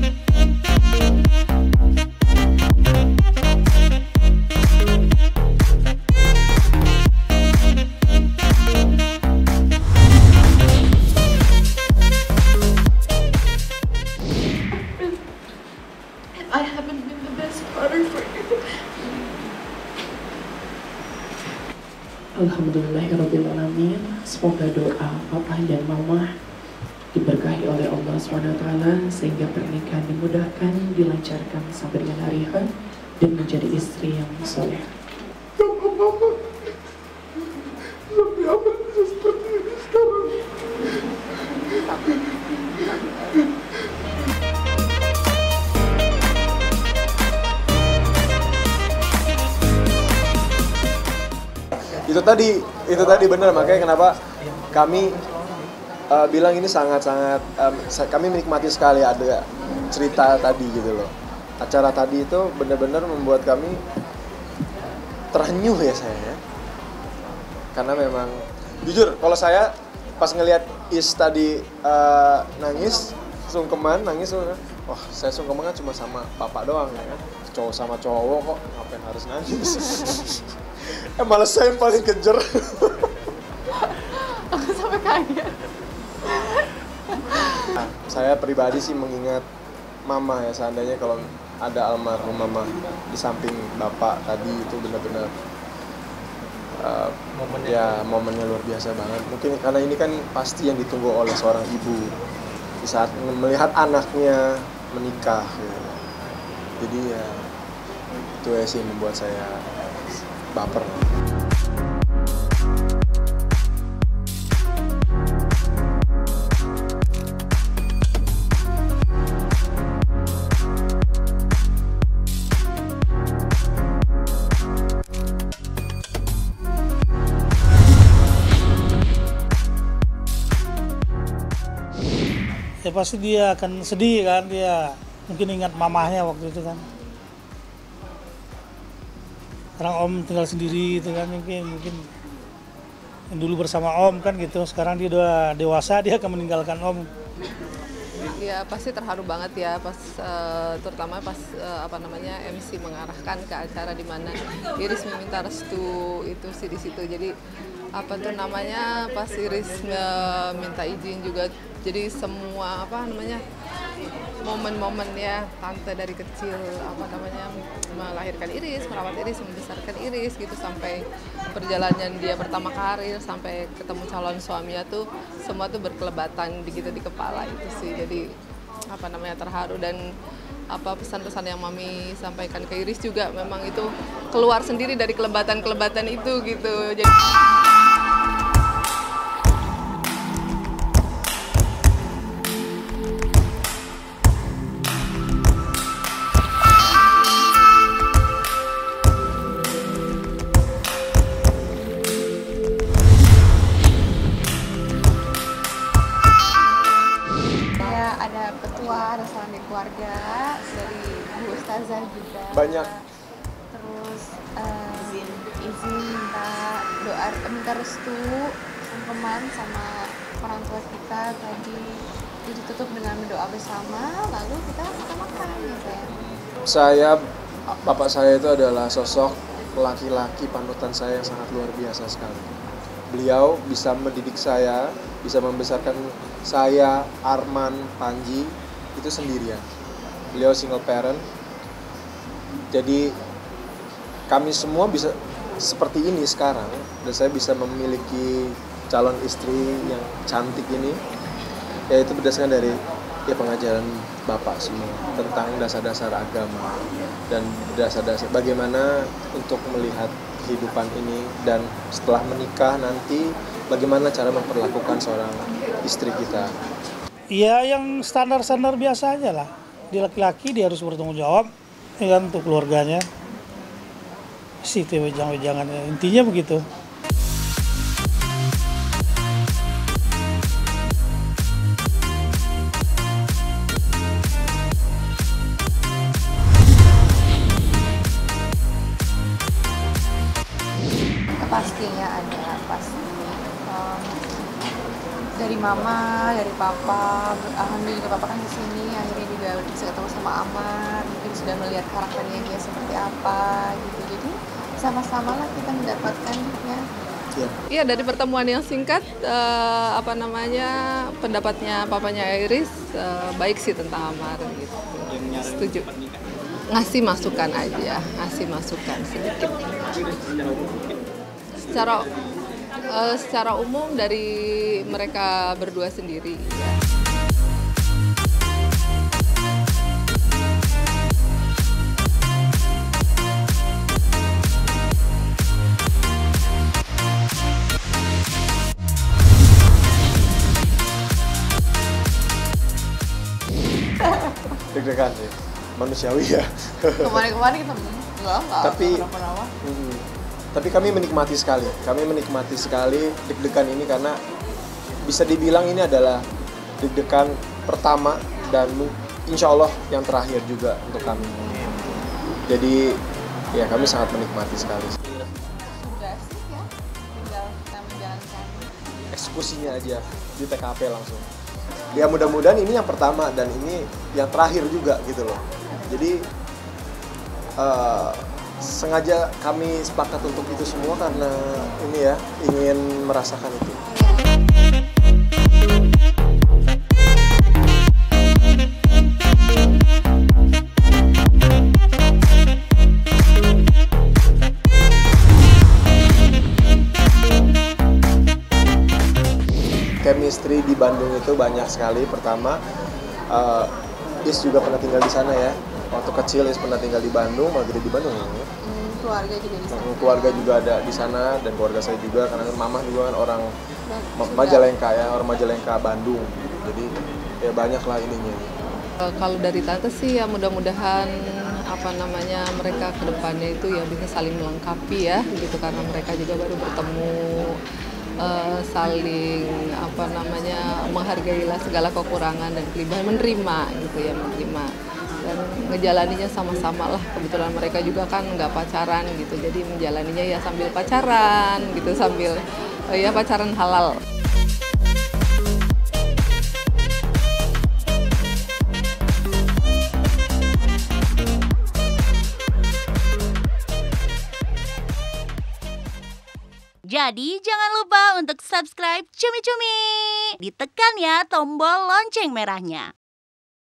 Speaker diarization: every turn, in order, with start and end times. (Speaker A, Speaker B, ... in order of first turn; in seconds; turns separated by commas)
Speaker A: 16.4-19.4, Speaker B: 22.4-26.3, Speaker B: 27.1-32.6, Speaker B: 33.2-34.9, Speaker C: 35.6-36.3, Speaker C: 38.2-40.3, Speaker A: 41.7-42.0, Speaker A: 42.7-43.4, Speaker C: 52.0-54.2, Speaker C: 54.7-55.2, Speaker C: 56.1-63.8, Speaker C: 65.3-66.4, Speaker C: 67.7-83.1, Speaker A: 83.8-85.5, Speaker A: 86.2-87.7, Speaker C: 87.8-89.5, Speaker C: 90.0-95.3, Speaker C: 96.8-102.0, Speaker C: 102.8-106.0, Speaker C: 106.8-107.4, Speaker C: 108.4-109.6, Speaker C: 110.5-111.0, Speaker D: 132.8-136.8, Speaker D: 139.8-142.0, Speaker D: 143.3-147.1, Speaker E: 148.4-157.3, Speaker E: 158.0-163.4, Speaker E: 164.4-171.0, Speaker E: 171.5-178.2, Speaker E: 178.9-180.0, Speaker E: 180.7-187.1, Speaker A: 207.8-213.0, Speaker C: 212.5-212.9, Speaker A: 213.7-219.9, Speaker A: 220.4-221.9, Speaker A: 222.4-226.1, Speaker C: 226.6-227.2, Speaker C: 227.7-232.5, Speaker C: 233.1-239.6, Speaker C: 240.3-241.2, Speaker C: 242.7-243.1, Speaker C: 244.3-251.0, Speaker C: 251.9-256.8, Speaker C: 257.3-266.5, Speaker D: 267.3-273.1, Speaker D: 274.6-276.6, Speaker A: 291.4-294.5, Speaker A: 295.4-306.8, Speaker E: 307.7-315.9, Speaker E: 316.7-319.9, Speaker E: 321.7-322.1, Speaker E: 322.9-326.8, Speaker C: 344.7-347.2, Speaker A: 347.0-349.5, Speaker C: 348.6-349.0, Speaker C: 349.6-354.2, Speaker C: 355.0-356.2, Speaker C: 356.8-361.4, Speaker A: 361.5-362.0, Speaker C: 362.5-363.0, Speaker C: 363.5-365.0, Speaker A: 365.6-368.7, Speaker C: 369.1-371.3, Speaker A: 369.8-370.2, Speaker C: 371.9-376.2, Speaker C: 377.6-383.8, Speaker C: 400.0-402.6, Speaker C: 403.3-403.7, Speaker C: 404.2-408.5, Speaker A: 408.6-410.5, Speaker C: 409.7-413.5, Speaker A: 413.9-414.6, Speaker C: 414.1-416.9, Speaker C: 417.4-418.5, Speaker E: 419.2-421.1, Speaker E: 421.7-427.6, Speaker E: 428.2-434.7, Speaker E: 435.2-443.9, Speaker F: 456.9-462.9